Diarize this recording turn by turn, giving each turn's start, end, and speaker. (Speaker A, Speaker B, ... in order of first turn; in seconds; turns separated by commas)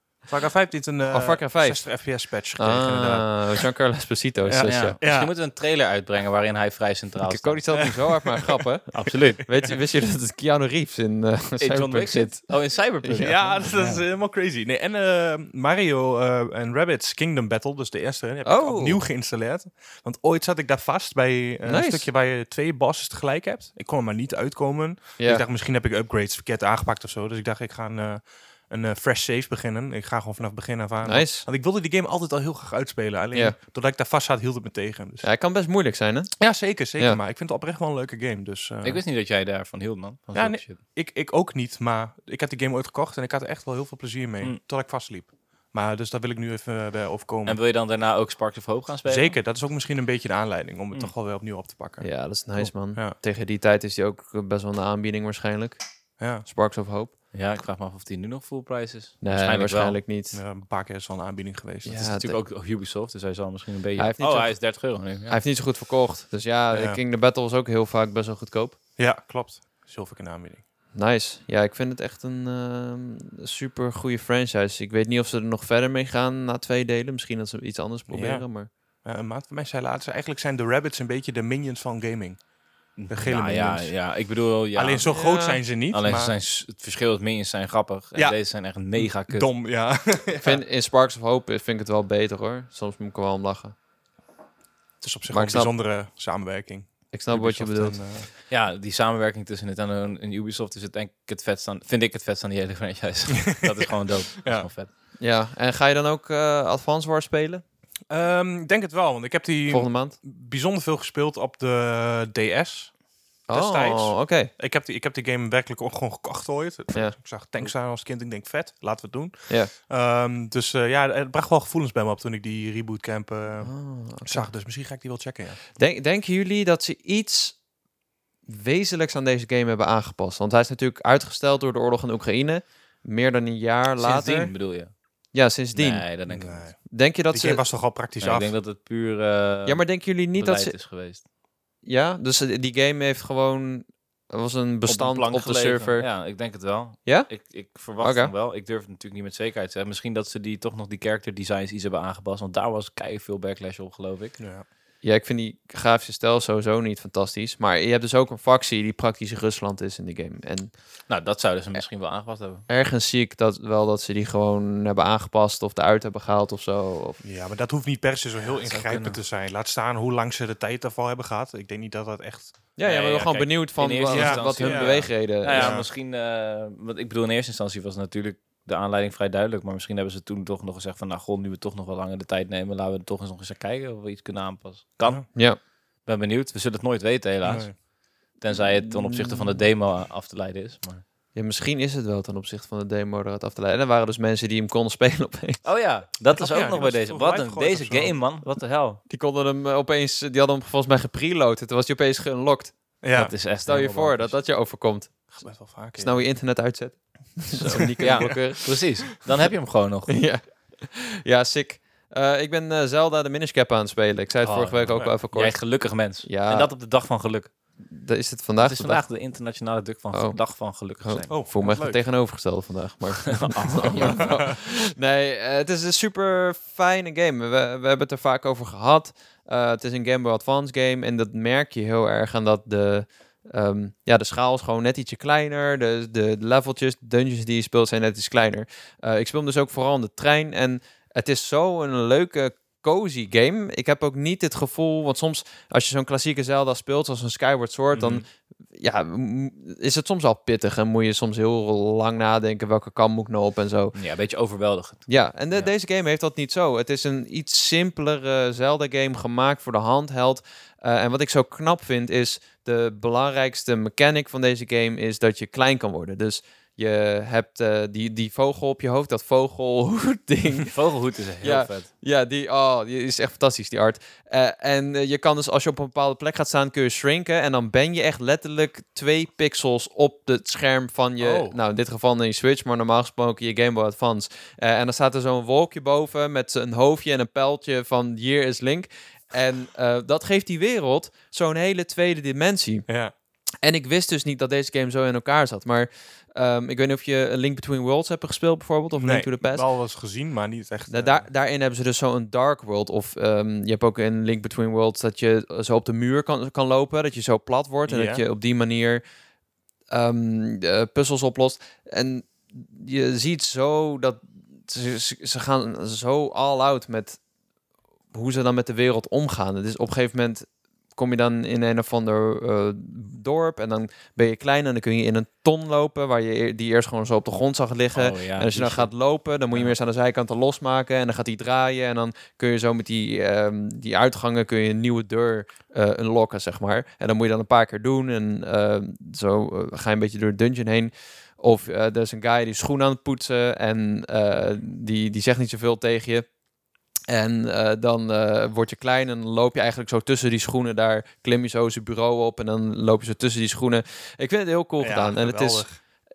Speaker A: 0.2-3.6, Speaker B: 1.1-5.0, Speaker A: 4.5-5.3, Speaker C: 4.6-7.8, Speaker B: 7.2-12.5, Speaker A: 7.7-8.6, Speaker C: 8.9-9.4, Speaker C: 11.6-13.7, Speaker B: 13.0-14.0, Speaker A: 13.2-35.3, Speaker B: 18.4-19.0, Speaker B: 21.6-22.1, Speaker B: 31.0-31.5, Speaker B: 35.2-36.3, Speaker A: 36.4-39.0, Speaker C: 38.8-40.8, Speaker A: 40.4-47.6, Speaker C: 47.5-49.4, Speaker A: 49.1-52.1, Speaker B: 52.0-55.8, Speaker A: 52.9-53.2, Speaker A: 56.2-56.5, Speaker B: 56.5-57.1, Speaker C: 57.3-60.0, Speaker B: 59.2-60.4, Speaker A: 60.3-62.1, Speaker B: 61.9-62.4, Speaker C: 62.0-65.4, Speaker B: 64.0-68.8, Speaker A: 66.7-67.0, Speaker A: 69.0-70.6, Speaker B: 70.9-78.7, Speaker A: 78.1-78.5, Speaker A: 79.0-82.4, Speaker C: 83.0-85.1, Speaker A: 83.1-83.9, Speaker A: 84.8-86.3, Speaker B: 85.1-85.6, Speaker C: 85.9-89.5, Speaker A: 88.9-90.6, Speaker B: 90.4-93.8, Speaker A: 95.0-98.3, Speaker B: 95.3-95.7, Speaker B: 97.1-98.0, Speaker C: 98.5-104.9, Speaker A: 103.4-103.7, Speaker B: 105.2-107.6, Speaker A: 108.1-113.0, Speaker B: 109.7-110.2, Speaker B: 113.5-114.5, Speaker A: 113.5-123.7, Speaker B: 123.6-124.5, Speaker A: 124.2-125.6, Speaker B: 125.8-127.6, Speaker B: 128.5-134.5, Speaker C: 134.0-134.9, Speaker B: 135.3-136.1, Speaker C: 135.7-136.7, Speaker A: 136.3-136.8, Speaker B: 136.9-137.6, Speaker A: 137.3-138.5, Speaker C: 138.2-139.8, Speaker B: 139.7-140.7, Speaker C: 140.3-141.2, Speaker B: 141.8-146.1, Speaker C: 144.9-154.4, Speaker B: 147.1-147.3, Speaker B: 148.0-148.3, Speaker A: 154.4-154.7, Speaker B: 155.0-160.7, Speaker C: 161.1-162.7, Speaker B: 162.7-167.2, Speaker A: 167.2-172.6, Speaker C: 168.6-169.2, Speaker B: 172.8-175.7, Speaker C: 172.8-185.3, Speaker A: 174.1-175.9, Speaker C: 186.1-187.8, Speaker A: 187.4-187.8, Speaker C: 188.4-191.0, Speaker B: 188.5-189.6, Speaker B: 191.3-195.6, Speaker C: 195.6-199.0, Speaker A: 196.3-198.2, Speaker B: 199.1-202.8, Speaker A: 203.0-203.3, Speaker C: 203.1-204.4, Speaker B: 203.6-205.3, Speaker A: 205.3-206.2, Speaker B: 206.0-208.8, Speaker C: 207.5-210.1, Speaker A: 207.8-208.4, Speaker B: 210.1-216.7, Speaker C: 214.4-217.5, Speaker B: 217.9-219.0, Speaker C: 218.6-221.4, Speaker B: 220.1-220.4, Speaker B: 221.0-254.0, Speaker A: 221.3-222.0, Speaker C: 223.3-224.3, Speaker A: 223.8-224.5, Speaker C: 247.9-248.2, Speaker C: 253.9-255.7, Speaker B: 255.1-270.8, Speaker C: 270.6-271.9, Speaker B: 271.4-292.9, Speaker A: 281.2-281.6, Speaker A: 292.9-293.1, Speaker B: 293.6-299.6, Speaker A: 299.0-301.3, Speaker B: 300.9-309.0, Speaker A: 307.9-308.2, Speaker B: 309.9-317.2, Speaker B: 318.1-346.3, Speaker C: 327.9-328.9, Speaker B: 347.1-355.7, Speaker A: 354.8-355.8